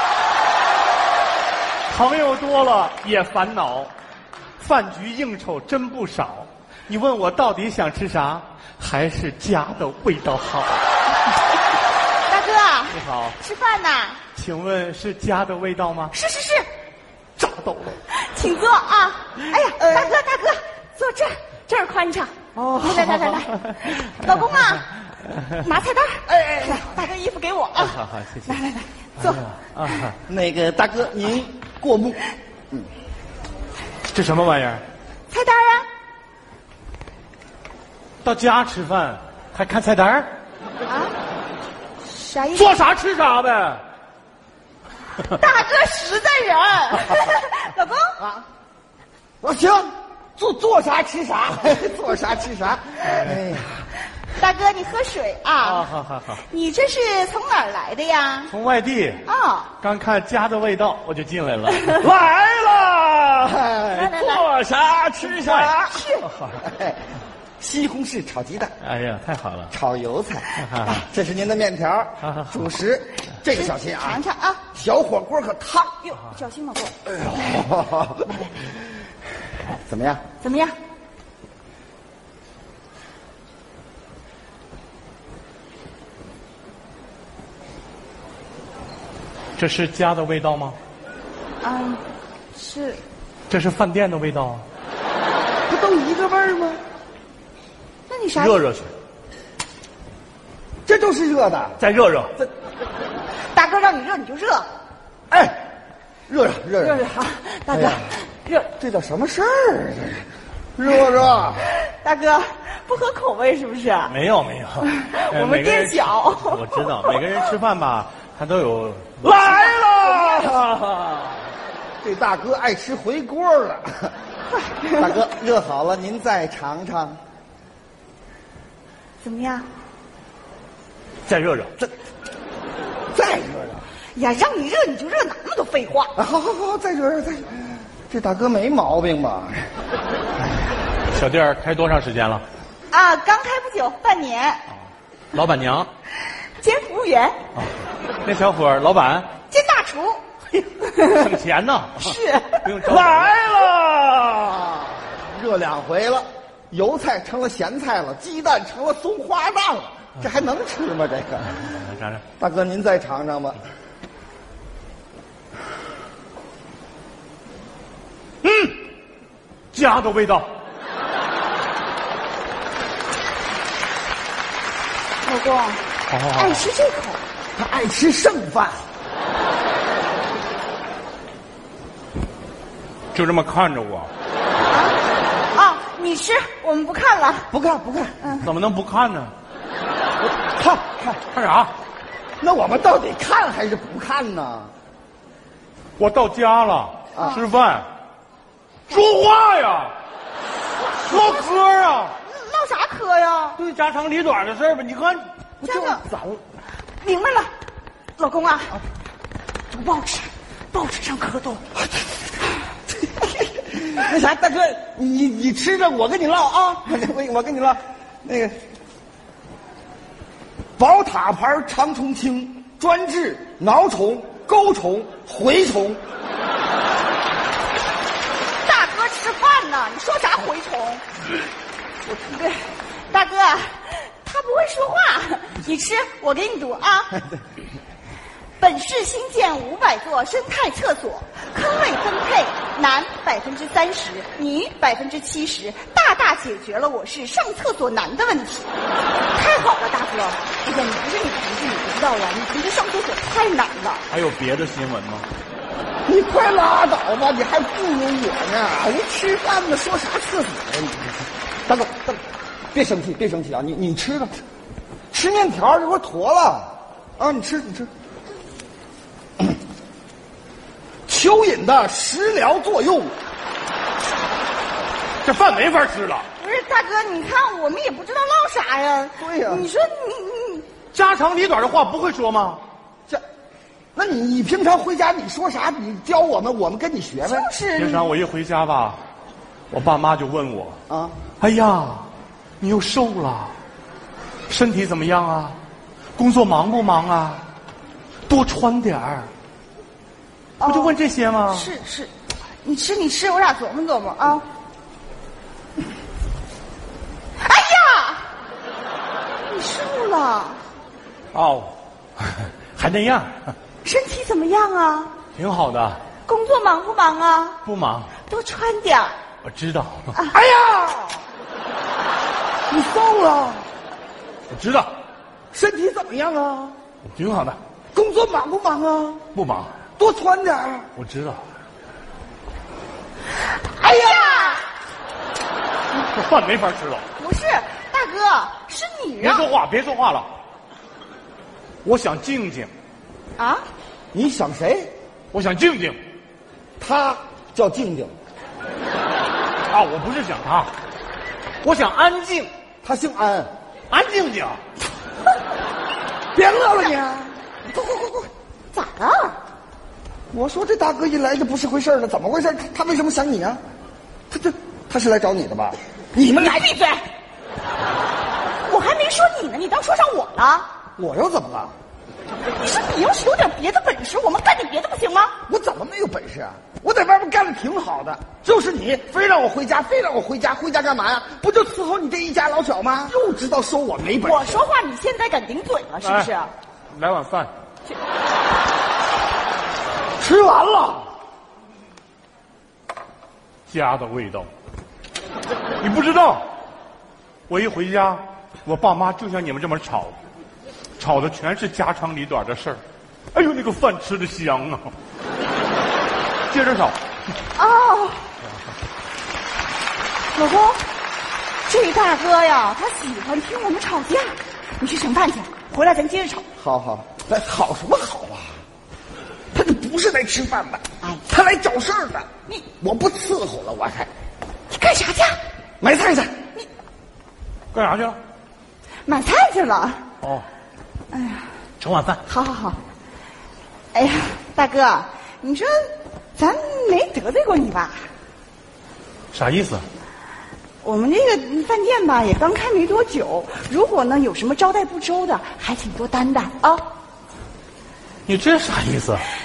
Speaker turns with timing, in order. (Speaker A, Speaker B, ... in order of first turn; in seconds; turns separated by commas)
Speaker A: 1.9-3.9, Speaker A: 4.6-10.8, Speaker B: 12.3-14.2, Speaker A: 12.9-13.4, Speaker A: 14.3-16.1, Speaker B: 16.1-16.7, Speaker A: 17.4-18.0, Speaker B: 18.1-29.4, Speaker A: 22.6-23.9, Speaker C: 26.3-26.8, Speaker A: 27.9-28.5, Speaker A: 29.2-30.2, Speaker C: 30.3-32.2, Speaker A: 34.1-34.8, Speaker B: 35.3-35.9, Speaker A: 38.2-40.3, Speaker B: 40.8-41.1, Speaker B: 42.0-42.8, Speaker A: 42.5-43.8, Speaker B: 45.2-48.4, Speaker C: 49.4-53.9, Speaker B: 54.3-55.9, Speaker A: 55.6-56.4, Speaker B: 56.4-58.5, Speaker A: 58.5-59.2, Speaker B: 59.2-59.7, Speaker A: 59.8-65.8, Speaker C: 63.5-64.2, Speaker B: 63.9-64.5, Speaker C: 65.2-66.0, Speaker B: 65.8-66.3, Speaker C: 66.6-67.0, Speaker C: 67.6-68.7, Speaker A: 68.8-69.7, Speaker C: 69.7-74.2, Speaker A: 70.5-71.0, Speaker A: 72.2-72.7, Speaker B: 73.5-74.6, Speaker C: 74.7-76.1, Speaker B: 76.0-77.6, Speaker C: 77.1-78.2, Speaker B: 78.2-78.7, Speaker C: 79.7-80.2, Speaker B: 80.4-80.7, Speaker A: 89.5-90.8, Speaker B: 91.6-92.0, Speaker B: 92.5-93.0, Speaker A: 93.5-94.6, Speaker C: 95.7-96.8, Speaker B: 98.1-98.6, Speaker A: 98.3-98.9, Speaker C: 100.8-101.8, Speaker A: 101.8-102.3, Speaker B: 103.5-104.7, Speaker C: 105.3-105.6, Speaker C: 106.3-107.0, Speaker B: 106.8-108.7, Speaker C: 107.7-108.1, Speaker C: 108.8-110.2, Speaker C: 110.8-111.6, Speaker B: 111.6-114.1, Speaker A: 114.1-119.8, Speaker B: 114.8-117.2, Speaker C: 119.2-121.0, Speaker B: 120.0-120.5, Speaker C: 122.0-124.1, Speaker B: 124.5-125.1, Speaker C: 125.0-127.2, Speaker B: 129.2-129.7, Speaker A: 131.2-131.8, Speaker C: 133.1-133.9, Speaker B: 134.1-136.1, Speaker C: 136.2-139.7, Speaker A: 141.1-142.4, Speaker B: 142.9-144.6, Speaker A: 145.3-145.9, Speaker B: 146.4-147.4, Speaker A: 148.2-149.3, Speaker B: 149.5-151.2, Speaker A: 151.0-153.7, Speaker B: 152.0-152.7, Speaker C: 152.9-161.6, Speaker A: 161.6-162.2, Speaker C: 162.4-163.6, Speaker A: 168.4-168.8, Speaker A: 169.7-170.5, Speaker B: 175.2-177.2, Speaker A: 176.1-176.7, Speaker C: 177.6-178.8, Speaker A: 183.1-184.1, Speaker B: 184.6-187.5, Speaker C: 187.5-188.3, Speaker B: 188.2-188.5, Speaker A: 188.4-189.3, Speaker C: 190.2-191.2, Speaker A: 191.3-191.7, Speaker C: 192.4-194.7, Speaker A: 196.0-197.9, Speaker C: 197.1-197.4, Speaker A: 198.9-199.9, Speaker A: 200.9-202.2, Speaker B: 201.0-201.4, Speaker B: 202.2-203.6, Speaker A: 203.6-205.3, Speaker B: 205.6-206.0, Speaker C: 205.6-206.4, Speaker B: 207.0-207.5, Speaker B: 208.2-208.8, Speaker B: 209.7-211.6, Speaker C: 213.7-218.6, Speaker C: 220.8-226.0, Speaker B: 228.6-231.0, Speaker B: 232.3-237.2, Speaker B: 238.6-248.7, Speaker B: 249.3-254.0, Speaker A: 254.1-255.3, Speaker C: 256.1-262.2, Speaker C: 262.7-264.4, Speaker C: 265.1-267.9, Speaker C: 271.1-273.1, Speaker A: 275.2-276.2, Speaker B: 276.4-280.7, Speaker C: 279.2-279.6, Speaker A: 280.9-282.6, Speaker C: 283.9-287.5, Speaker B: 287.2-288.1, Speaker A: 287.8-289.0, Speaker A: 289.7-290.8, Speaker C: 290.9-291.2, Speaker A: 291.4-292.1, Speaker A: 292.6-293.5, Speaker A: 294.5-295.6, Speaker A: 296.1-297.4, Speaker A: 298.3-299.3, Speaker B: 300.6-301.0, Speaker A: 300.6-301.7, Speaker B: 301.5-302.1, Speaker B: 302.6-304.4, Speaker B: 307.4-308.3, Speaker B: 309.5-310.6, Speaker A: 311.3-313.5, Speaker B: 313.8-315.1, Speaker A: 315.3-316.0, Speaker B: 316.2-317.6, Speaker A: 317.6-318.1, Speaker B: 318.3-319.1, Speaker A: 319.4-320.1, Speaker C: 320.3-321.2, Speaker C: 322.7-323.7, Speaker A: 324.5-324.9, Speaker C: 325.5-326.8, Speaker A: 327.1-327.6, Speaker C: 327.9-329.2, Speaker A: 329.3-329.7, Speaker C: 330.0-330.9, Speaker A: 330.9-331.4, Speaker B: 333.6-334.6, Speaker C: 333.8-334.4, Speaker A: 336.0-337.0, Speaker B: 337.2-339.4, Speaker A: 339.2-340.3, Speaker A: 341.8-342.7, Speaker B: 343.4-343.6, Speaker C: 344.1-344.9, Speaker A: 345.3-346.0, Speaker C: 346.8-348.1, Speaker A: 349.7-350.7, Speaker A: 351.6-352.5, Speaker C: 352.8-353.5, Speaker A: 353.9-354.6, Speaker C: 356.3-357.3, Speaker B: 358.7-359.4, Speaker C: 360.3-363.6, Speaker C: 364.3-366.6, Speaker B: 366.2-367.1, Speaker B: 368.6-370.7, Speaker C: 371.0-371.7, Speaker B: 372.6-375.3, Speaker C: 375.5-384.6, Speaker B: 384.2-386.5, Speaker A: 386.0-386.3, Speaker A: 386.9-387.5, Speaker C: 390.2-391.1, Speaker A: 393.7-394.5, Speaker A: 395.8-396.4, Speaker A: 397.5-400.1, Speaker A: 401.0-402.8, Speaker A: 403.3-404.9, Speaker A: 406.5-407.0, Speaker B: 407.5-408.3, Speaker B: 410.3-410.8, Speaker B: 411.6-416.4, Speaker C: 416.6-418.5, Speaker C: 419.5-422.3, Speaker C: 422.8-424.1, Speaker B: 424.7-425.4, Speaker C: 425.8-426.3, Speaker A: 427.7-428.2, Speaker B: 429.1-430.0, Speaker B: 431.1-431.5, Speaker A: 431.8-432.2, Speaker B: 432.2-432.8, Speaker B: 433.9-438.1, Speaker A: 439.3-439.8, Speaker B: 440.8-446.9, Speaker A: 448.2-449.3